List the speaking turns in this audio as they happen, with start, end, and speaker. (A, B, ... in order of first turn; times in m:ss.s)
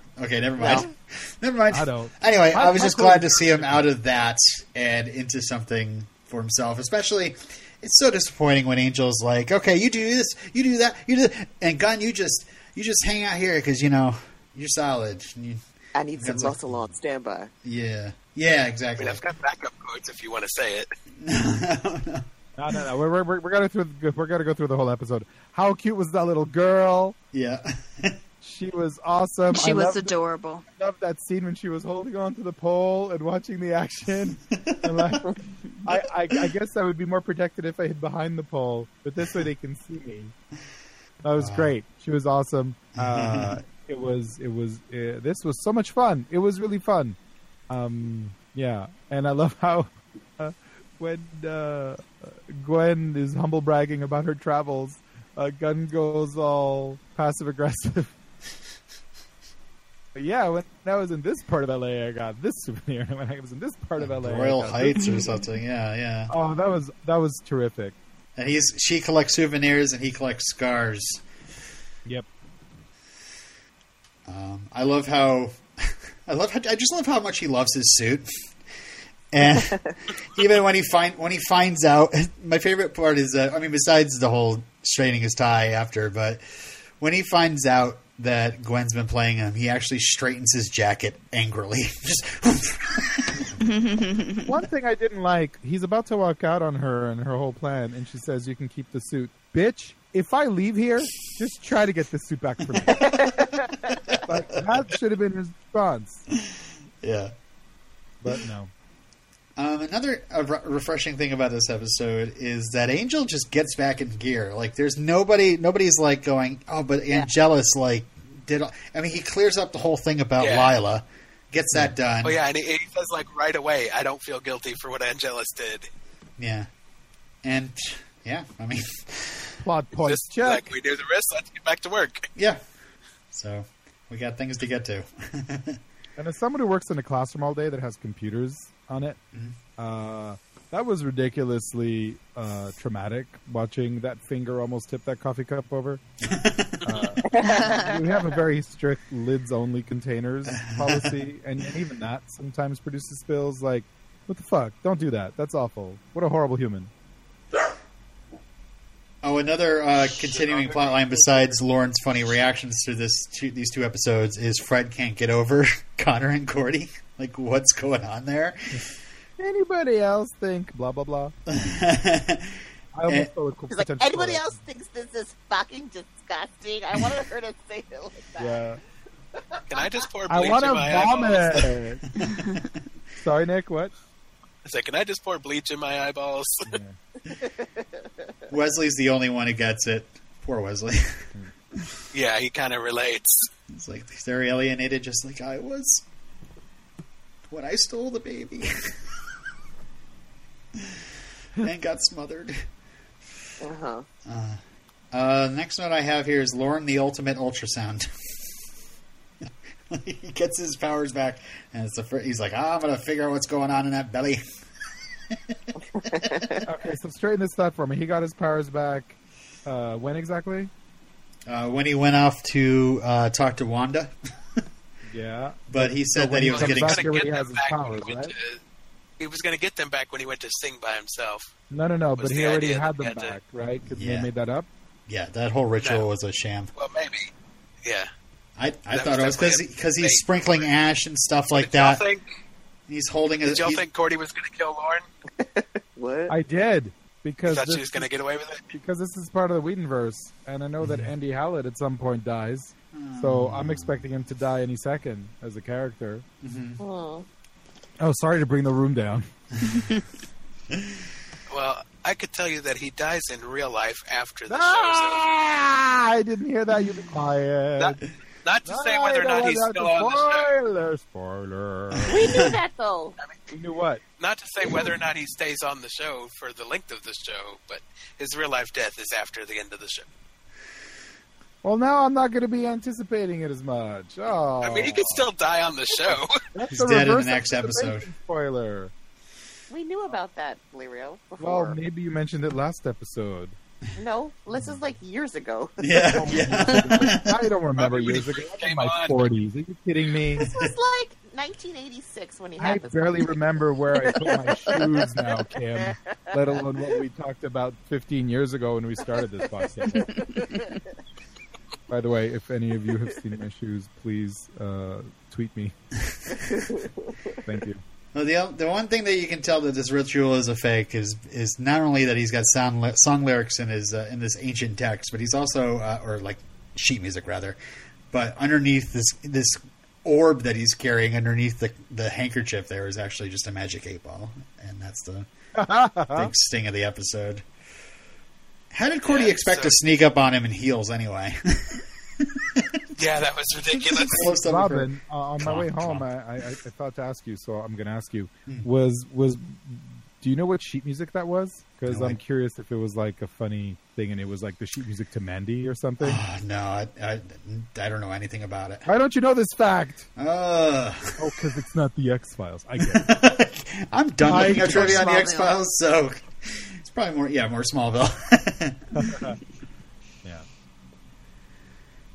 0:00.2-0:15.6 A
0:00.6-0:00.9 B
0:01.7-0:03.9 C
0:16.0-0:17.5 B
0:16.2-0:16.9 A
0:17.6-0:19.2 A
0:19.0-0:20.9 D
0:21.2-0:22.3 A
0:22.6-0:27.2 C
0:27.3-0:28.2 A
0:28.4-0:30.1 C
0:29.5-0:30.6 E
0:30.8-0:40.3 C
0:34.5-0:34.9 A
0:41.2-0:47.2 C
0:41.4-0:41.7 A
0:43.0-0:43.6 A
0:47.7-0:58.1 C
1:00.2-1:05.1 C
1:04.0-1:06.3 A
1:05.0-1:05.4 E
1:06.3-1:08.0 C
1:08.4-1:11.2 A
1:14.3-1:18.4 A
1:19.3-1:33.6 A
1:33.6-1:34.5 E
1:34.4-1:43.0 C
1:42.7-1:43.3 A
1:42.9-1:44.2 B
1:44.2-1:46.3 C
1:46.4-1:47.3 A
1:48.2-1:48.7 C
1:49.6-2:02.4 A
2:00.4-2:00.7 D
2:02.2-2:05.9 D
2:06.4-2:06.7 A
2:07.4-2:09.6 A
2:09.6-2:10.7 C
2:10.0-2:12.3 D
2:12.4-2:12.6 A
2:13.3-2:15.8 A
2:16.2-2:19.2 C
2:19.8-2:26.0 C
2:26.2-2:26.9 A
2:26.8-2:36.9 C
2:27.3-2:28.2 B
2:27.4-2:28.0 E
2:30.5-2:31.2 A
2:39.2-2:48.9 A
2:40.2-2:41.6 D
2:49.4-2:51.4 C
2:51.5-2:53.3 A
2:53.0-2:54.6 C
2:53.7-2:58.7 B
2:58.4-2:58.8 C
2:59.3-2:59.9 B
2:59.7-3:01.6 D
3:00.3-3:02.1 C
3:02.2-3:02.7 A
3:03.2-3:03.9 C
3:04.6-3:06.6 D
3:06.7-3:07.0 C
3:07.3-3:08.3 B
3:08.5-3:11.9 A
3:12.1-3:13.5 D
3:13.7-3:16.0 A
3:17.5-3:19.3 A
3:20.8-3:22.7 A
3:23.6-3:24.1 B
3:24.2-3:28.5 A
3:29.9-3:34.4 A
3:35.3-3:36.5 A
3:35.8-3:36.7 B
3:36.6-3:40.7 C
3:41.5-3:44.6 A
3:45.1-3:48.3 C
3:45.7-3:47.1 A
3:46.5-3:48.6 D
3:49.2-3:51.5 D
3:51.7-3:54.7 C
3:52.2-3:53.4 D
3:53.8-3:54.3 A
3:55.1-3:56.7 A
3:55.8-3:56.1 D
3:56.8-3:57.3 D
3:57.8-3:58.1 D
3:58.6-4:02.0 A
3:58.9-4:00.7 D
4:01.5-4:02.4 D
4:02.9-4:03.8 A
4:03.4-4:05.0 D
4:05.4-4:06.4 B
4:06.3-4:08.1 C
4:07.5-4:08.6 D
4:08.7-4:16.2 C
4:10.8-4:11.1 A
4:12.9-4:14.0 A
4:16.4-4:16.8 A
4:16.8-4:17.3 B
4:18.0-4:19.3 C
4:19.6-4:19.9 A
4:19.7-4:20.0 E
4:20.7-4:21.1 A
4:21.5-4:25.2 D
4:24.5-4:28.0 C
4:27.8-4:30.5 D
4:28.7-4:32.3 C
4:32.0-4:32.5 A
4:32.0-4:33.2 B
4:33.5-4:34.0 C
4:34.2-4:40.1 D
4:41.6-4:45.2 C
4:44.6-4:46.3 D
4:46.6-4:48.9 C
4:46.7-4:48.1 A
4:49.7-4:51.8 B
4:51.4-4:53.6 C
4:54.0-4:56.6 B
4:55.8-4:57.5 A
4:56.1-5:00.5 C
4:57.8-4:59.3 D
5:00.4-5:03.4 B
5:00.5-5:00.7 A
5:02.6-5:10.1 C
5:04.0-5:06.6 B
5:10.0-5:10.9 B
5:11.9-5:15.8 C
5:16.3-5:17.4 B
5:17.5-5:17.8 C
5:18.1-5:27.6 A
5:28.1-5:35.3 A
5:35.6-5:36.3 C
5:36.1-5:37.4 A
5:38.7-5:42.8 A
5:39.1-5:39.8 D
5:43.0-5:44.3 D
5:43.8-5:46.1 A
5:44.0-5:56.2 C
5:51.9-5:52.2 A
5:56.0-5:58.9 A
5:58.9-6:00.1 C
6:00.2-6:01.2 A
6:01.2-6:03.1 C
6:02.8-6:08.9 A
6:04.2-6:05.4 C
6:08.9-6:09.4 C